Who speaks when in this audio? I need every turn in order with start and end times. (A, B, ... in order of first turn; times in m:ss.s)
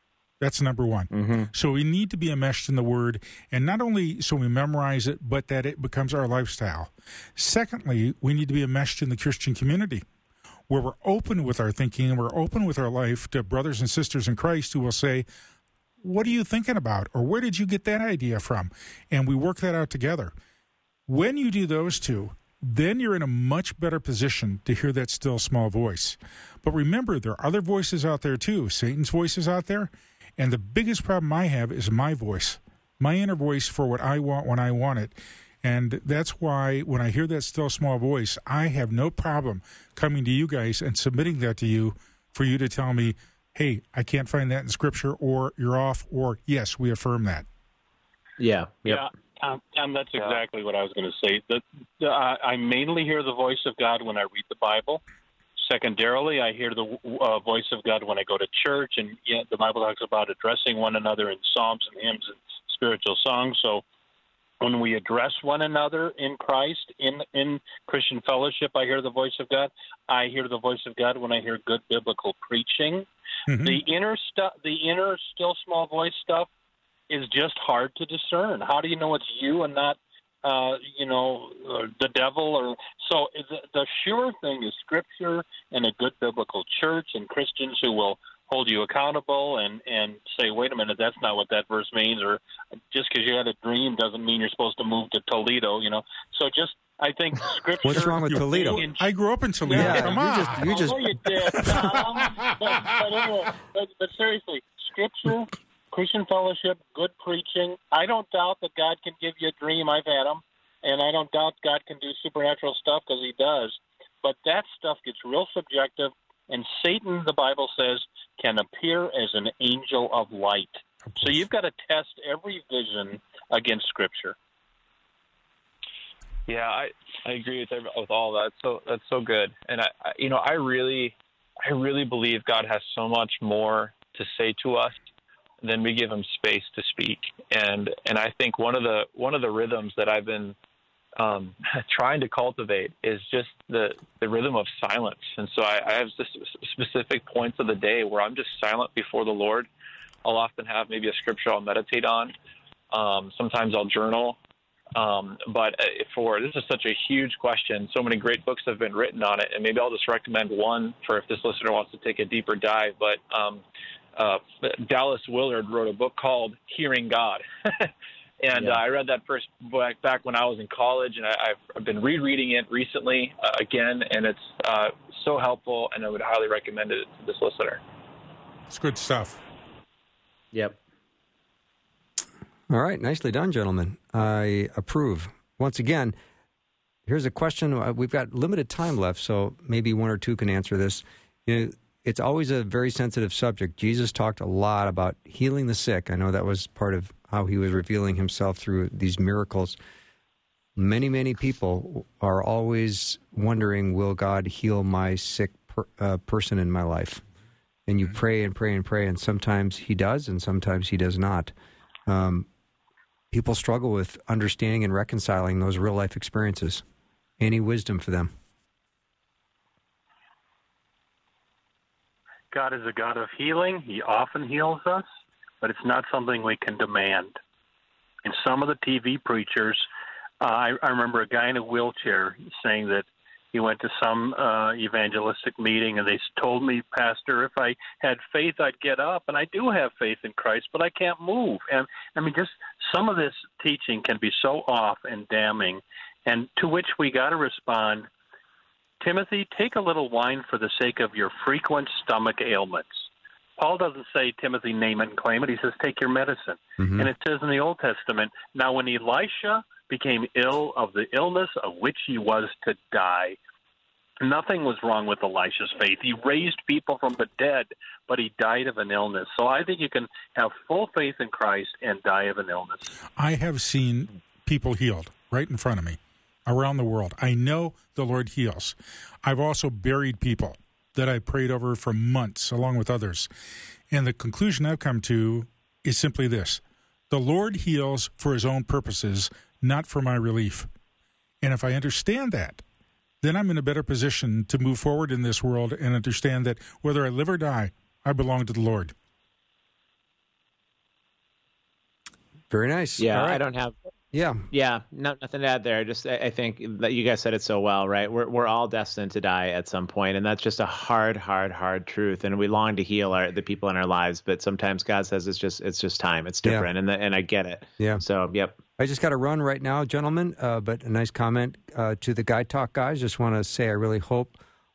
0:00.4-0:10.0 A
0:01.1-0:01.5 B
0:10.7-0:15.3 A
0:16.0-0:20.3 A
0:21.1-0:47.4 A
0:48.4-0:49.0 B
0:48.9-0:55.0 C
0:50.2-0:50.4 D
0:55.6-1:03.8 C
1:04.6-1:13.1 C
1:13.5-1:13.8 A
1:13.6-1:16.5 C
1:17.1-1:32.4 C
1:32.9-1:39.0 C
1:37.8-1:38.8 E
1:37.9-1:41.0 A
1:39.6-2:04.4 C
1:39.7-1:41.0 E
1:41.6-1:42.5 A
2:06.5-2:14.9 D
2:15.6-2:20.6 D
2:21.2-2:29.7 D
2:30.2-2:32.3 D
2:32.9-2:34.4 D
2:34.9-2:43.6 D
2:44.2-2:47.9 D
2:48.4-2:57.8 D
2:48.5-2:48.8 B
2:58.7-2:59.4 A
3:02.7-3:06.2 E
3:07.1-3:19.8 E
3:20.8-3:27.2 E
3:27.9-3:31.5 E
3:32.1-3:32.5 E
3:33.3-3:36.8 E
3:37.4-3:38.3 E
3:42.5-3:45.0 C
3:45.6-3:47.4 C
3:48.2-3:49.8 C
3:50.4-4:08.1 C
4:09.0-4:13.1 C
4:13.6-4:23.4 C
4:16.8-4:17.1 E
4:24.2-4:32.9 C
4:33.2-4:43.3 A
4:43.9-4:50.7 A
4:51.4-4:52.6 A
4:53.2-4:58.9 A
5:02.5-5:03.4 E
5:03.0-5:03.8 B
5:04.1-5:04.4 E
5:04.5-5:18.6 B
5:17.8-5:18.0 E
5:18.8-5:24.4 E